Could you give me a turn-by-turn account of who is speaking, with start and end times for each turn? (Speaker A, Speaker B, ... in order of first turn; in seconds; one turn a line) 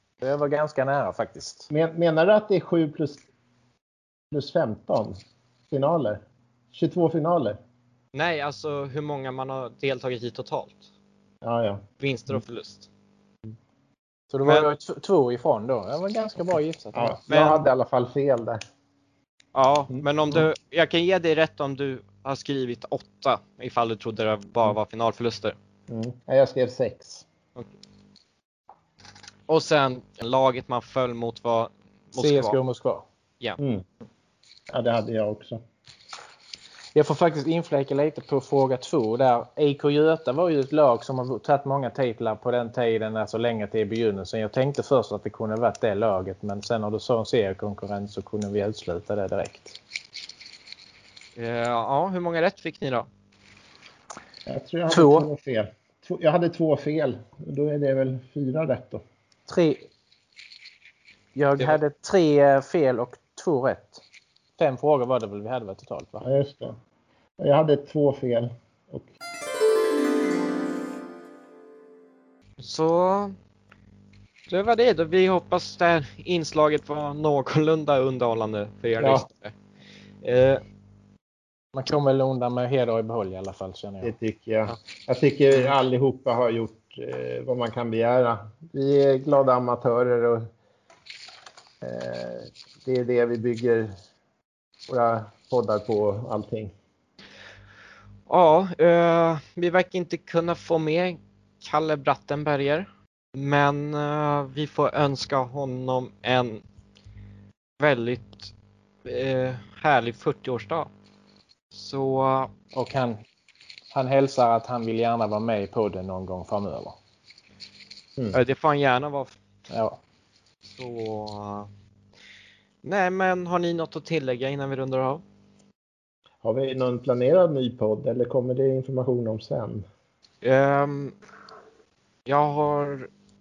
Speaker A: 0.2-1.7
Speaker B: 1.7-3.2
Speaker B: 4.3-5.2
Speaker B: 5.7-6.2
Speaker B: 6.7-7.6
Speaker C: 8.1-10.8
Speaker B: 11.4-12.4
Speaker C: 12.0-12.9
Speaker A: 14.3-17.2
Speaker C: 14.4-14.7
Speaker B: 16.9-18.6
Speaker C: 17.3-17.6
Speaker C: 19.5-25.6
Speaker B: 25.9-27.2
Speaker C: 29.5-32.6
Speaker A: 32.2-33.0
Speaker B: 33.6-33.8
Speaker B: 34.7-35.6
Speaker A: 36.9-49.8
Speaker C: 51.4-53.1
Speaker B: 54.5-59.0
Speaker A: 54.9-55.3
Speaker A: 59.5-59.9
Speaker A: 61.4-64.0
Speaker A: 64.6-66.3
Speaker B: 66.2-66.8
Speaker B: 67.4-69.1
Speaker C: 72.6-73.3
Speaker C: 74.5-79.5
Speaker B: 79.0-79.2
Speaker C: 80.2-80.6
Speaker A: 81.7-84.1
Speaker B: 84.0-90.5
Speaker B: 91.8-94.0
Speaker B: 94.9-96.7
Speaker C: 98.3-106.6
Speaker C: 107.8-108.5
Speaker C: 109.0-110.9
Speaker C: 111.7-112.5
Speaker A: 112.7-113.2
Speaker A: 113.9-117.0
Speaker C: 118.3-119.3
Speaker A: 119.7-120.0
Speaker C: 120.7-121.7
Speaker C: 122.8-125.2
Speaker B: 126.4-129.8
Speaker C: 130.4-131.1
Speaker C: 132.2-133.1